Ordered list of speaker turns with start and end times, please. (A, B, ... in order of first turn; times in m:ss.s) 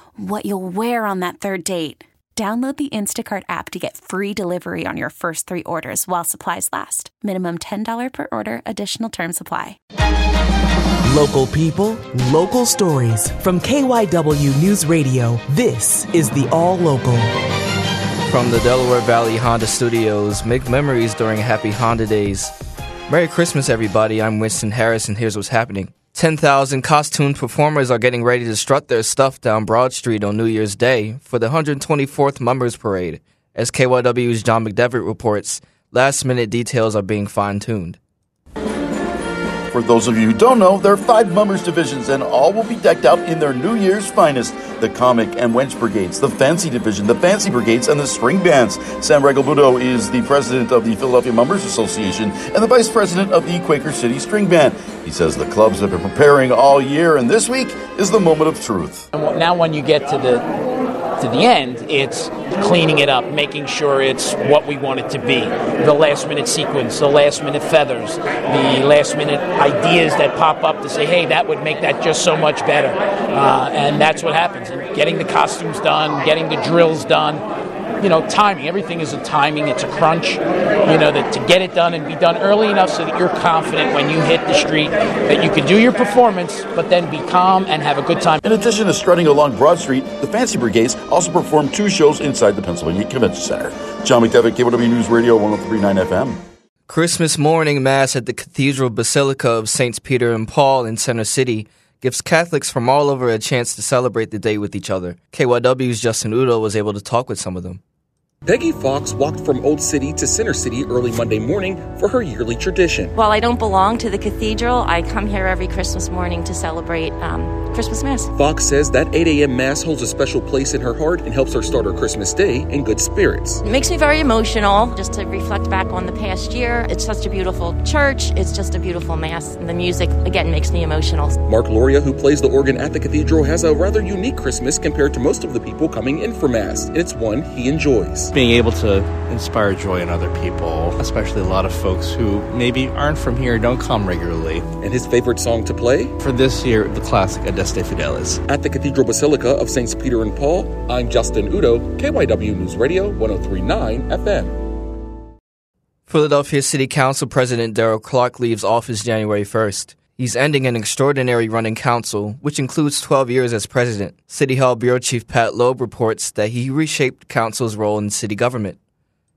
0:00.2-0:09.7 A
0:11.1-0:17.2 B
0:18.3-0:22.5 C
0:23.1-0:38.0 C
0:39.7-0:59.1 D
0:59.1-1:00.4 E
1:01.2-1:17.4 E
1:18.0-1:28.4 E
1:28.4-1:36.4 D
1:36.9-1:47.8 C
1:48.4-1:53.1 F
1:53.1-1:58.3 G
1:58.3-2:03.6 F
2:03.6-2:11.4 G
2:11.4-2:18.3 F
2:18.3-2:24.7 H
2:24.8-2:26.1 F
2:26.2-2:28.4 H
2:28.5-2:34.5 F
2:36.1-2:48.8 C